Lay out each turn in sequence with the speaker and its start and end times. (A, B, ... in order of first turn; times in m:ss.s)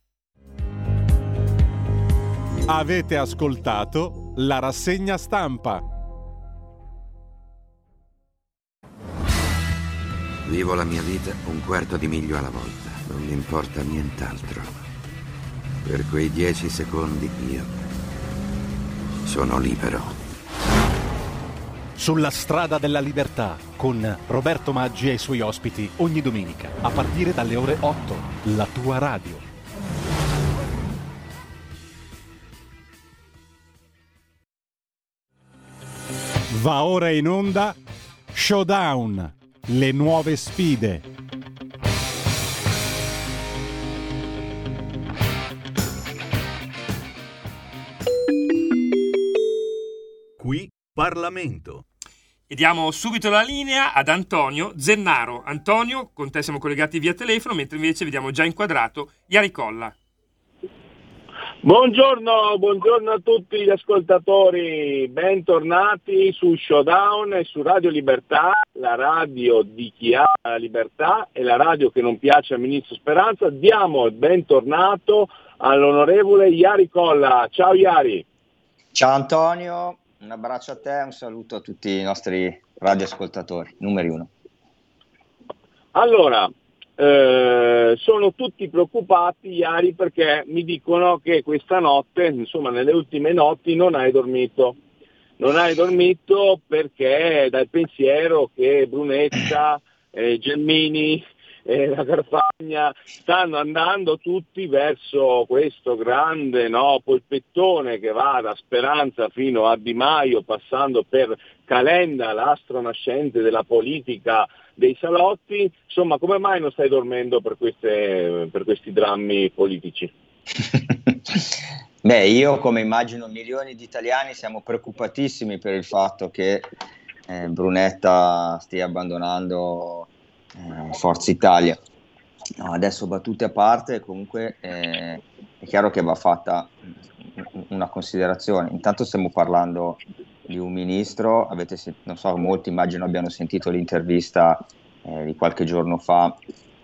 0:02.7-0:05.8 A
0:10.4-0:14.8 B
0:15.8-0:17.8 B
0:19.2-0:20.1 B
0:22.0-0:29.4 A
0:36.5-0:37.8 A
0:38.3-0:41.0 A
0:50.4-0:51.8 A
0:52.5-0:59.9 C
1:01.6-1:18.2 D
1:18.9-1:24.3 E
1:25.9-1:34.8 D
1:35.4-2:00.1 D
2:00.7-2:01.4 E
2:02.0-2:06.7 E
2:07.3-2:11.8 E
2:12.6-2:26.4 E